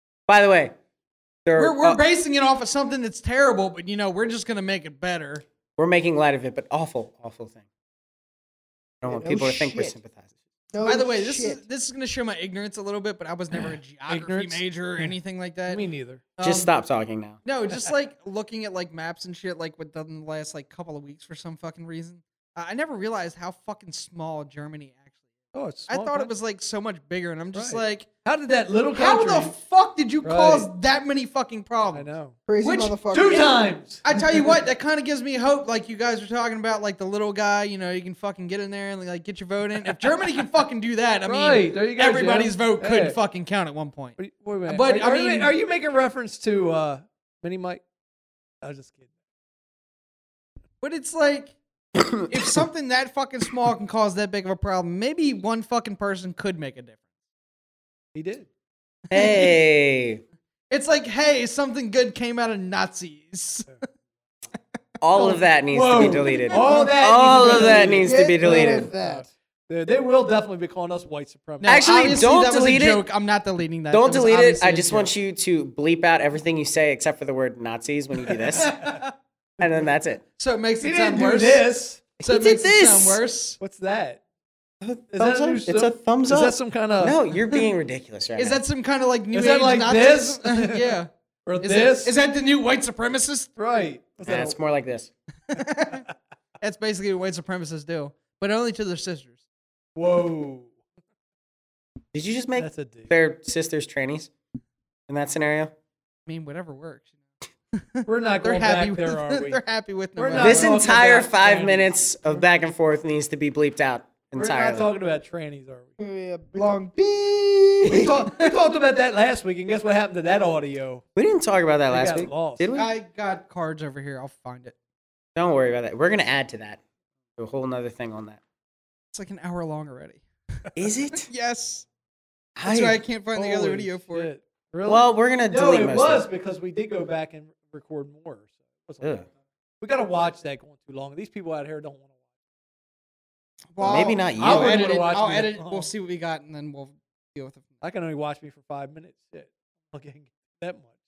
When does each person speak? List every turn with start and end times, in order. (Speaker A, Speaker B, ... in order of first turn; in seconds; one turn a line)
Speaker A: 0.3-0.7
Speaker A: 1.4-2.0
Speaker B: 1.6-5.4
Speaker A: 5.8-7.7
Speaker A: 9.0-10.3
Speaker C: 9.1-10.0
Speaker C: 10.7-11.6
Speaker B: 10.8-15.8
Speaker D: 13.5-15.1
Speaker D: 15.7-16.2
Speaker B: 16.4-16.7
Speaker A: 16.4-17.4
Speaker B: 17.4-25.1
Speaker D: 25.5-26.3
Speaker B: 25.9-28.1
Speaker D: 27.5-29.5
Speaker B: 28.9-32.1
Speaker D: 30.2-30.7
Speaker D: 31.9-32.4
Speaker C: 32.5-33.6
Speaker B: 32.6-33.0
Speaker D: 33.1-34.6
Speaker B: 34.0-45.5
Speaker D: 39.8-40.2
Speaker D: 41.3-43.2
Speaker D: 44.2-47.8
Speaker D: 48.6-49.0
Speaker B: 50.8-51.6
Speaker A: 52.0-52.2
Speaker B: 52.3-57.0
Speaker D: 58.1-58.5
Speaker B: 59.1-59.5
Speaker A: 59.1-60.2
Speaker B: 60.7-63.7
Speaker A: 65.0-68.9
Speaker D: 65.7-71.9
Speaker C: 66.5-69.3
Speaker B: 71.6-75.1
Speaker A: 71.6-73.0
Speaker A: 73.9-78.9
Speaker D: 78.3-78.8
Speaker B: 78.7-79.1
Speaker A: 79.6-80.2
Speaker B: 80.4-81.6
Speaker D: 80.8-82.1
Speaker B: 82.2-83.6
Speaker A: 82.2-83.2
Speaker D: 83.6-84.2
Speaker A: 84.8-88.6
Speaker D: 85.1-87.6
Speaker B: 88.4-91.1
Speaker D: 89.3-92.1
Speaker B: 91.6-93.5
Speaker D: 93.6-94.5
Speaker A: 94.3-95.1
Speaker B: 95.5-96.0
Speaker B: 96.6-99.4
Speaker D: 100.0-100.7
Speaker A: 102.1-104.3
Speaker D: 102.6-103.1
Speaker A: 105.1-105.7
Speaker B: 106.3-107.2
Speaker B: 107.7-110.8
Speaker D: 108.1-109.6
Speaker D: 110.2-112.4
Speaker A: 110.4-114.9
Speaker D: 114.3-115.9
Speaker C: 116.0-118.3
Speaker D: 117.9-121.0
Speaker A: 121.2-122.9
Speaker D: 121.9-122.7
Speaker B: 122.7-124.8
Speaker A: 125.4-126.8
Speaker A: 127.4-128.4
Speaker B: 129.1-130.2
Speaker A: 130.8-131.3
Speaker B: 131.3-131.9
Speaker A: 132.6-133.0
Speaker B: 132.7-134.3
Speaker D: 133.3-139.3
Speaker A: 134.8-136.3
Speaker D: 139.8-142.1
Speaker B: 143.7-147.7
Speaker C: 143.8-144.2
Speaker A: 143.8-144.8
Speaker D: 144.4-145.9
Speaker D: 147.8-150.9